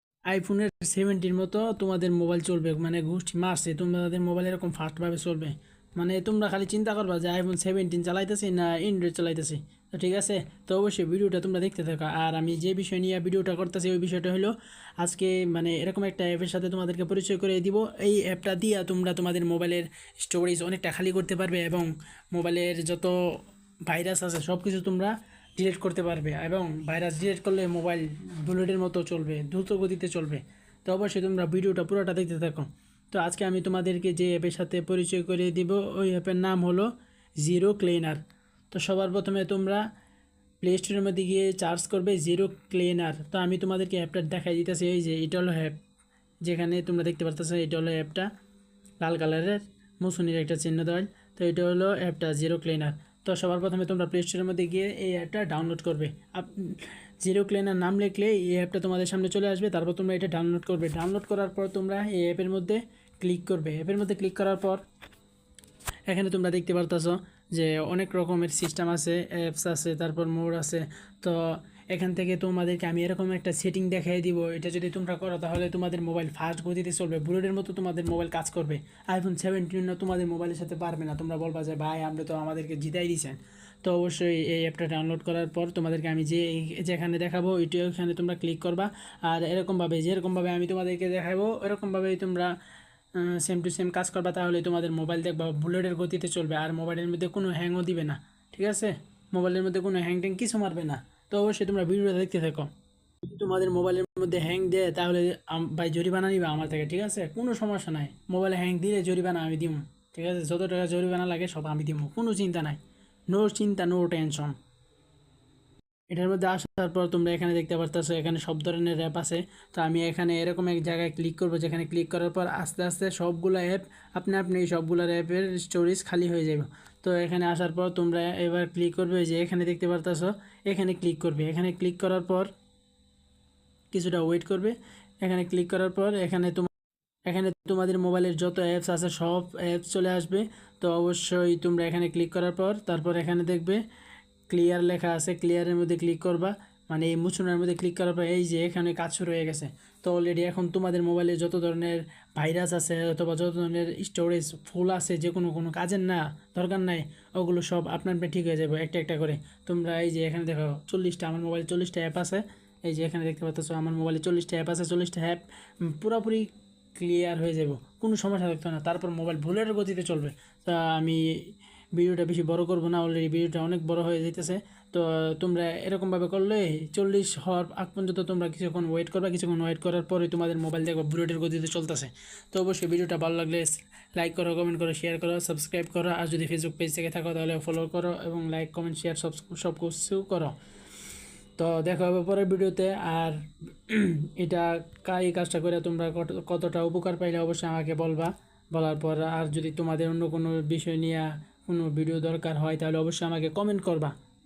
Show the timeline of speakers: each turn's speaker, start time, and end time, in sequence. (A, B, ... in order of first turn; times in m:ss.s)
0:00.3-0:39.8 A
0:40.6-0:45.8 A
0:46.4-0:48.3 A
0:49.0-1:04.8 A
1:06.1-1:32.6 A
1:33.2-1:42.7 A
1:43.2-1:52.8 A
1:53.3-1:54.6 A
1:56.1-2:12.5 A
2:13.9-2:16.7 A
2:17.3-2:23.8 A
2:24.5-2:51.2 A
2:51.9-3:10.6 A
3:11.6-3:24.2 A